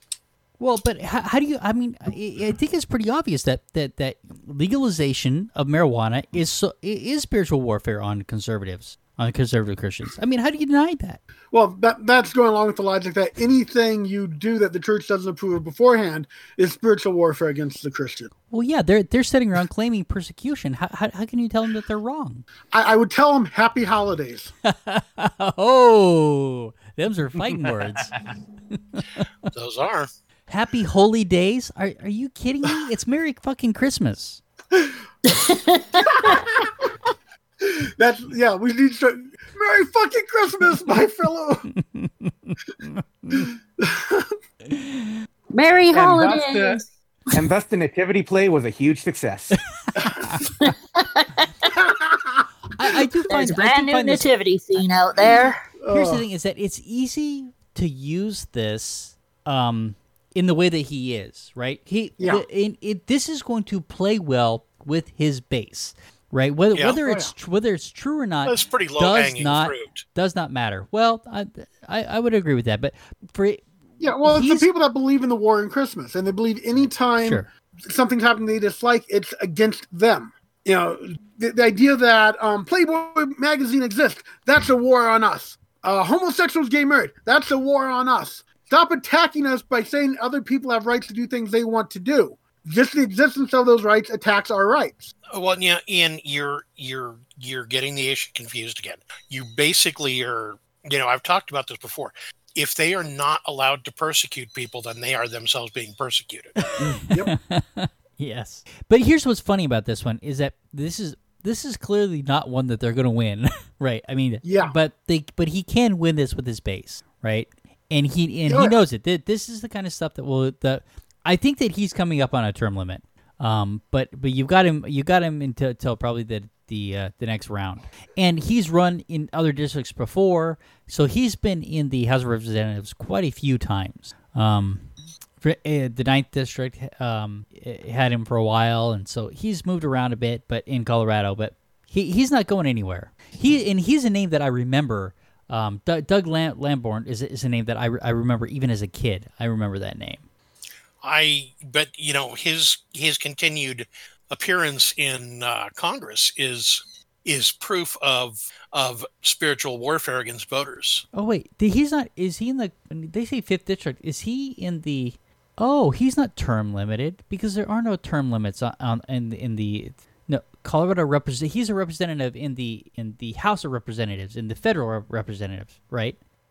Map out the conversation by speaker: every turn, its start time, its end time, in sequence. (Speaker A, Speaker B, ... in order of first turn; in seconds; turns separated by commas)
Speaker A: 0.6-11.2, Speaker B: 11.5-18.3, Speaker A: 18.5-22.4, Speaker B: 22.7-24.5, Speaker A: 24.6-28.2, Speaker A: 28.7-29.2, Speaker C: 29.5-30.1, Speaker A: 30.5-34.4, Speaker D: 35.2-36.4, Speaker B: 36.1-36.9, Speaker B: 37.6-41.7, Speaker A: 41.7-43.5, Speaker B: 43.3-44.3, Speaker A: 44.7-45.0, Speaker D: 45.5-46.8, Speaker E: 45.9-46.8, Speaker E: 47.3-49.6, Speaker B: 50.0-50.3, Speaker D: 50.6-51.7, Speaker B: 51.8-52.5, Speaker A: 52.8-54.3, Speaker D: 53.3-55.7, Speaker B: 55.8-56.3, Speaker A: 55.9-73.7, Speaker B: 62.2-62.5, Speaker B: 67.0-67.3, Speaker C: 68.5-70.0, Speaker B: 74.0-95.1, Speaker A: 74.2-74.7, Speaker A: 77.2-77.5, Speaker C: 95.3-106.6, Speaker A: 106.8-150.3, Speaker B: 106.8-107.3, Speaker B: 114.4-114.8, Speaker B: 118.5-118.8, Speaker C: 151.0-161.1, Speaker A: 161.1-176.2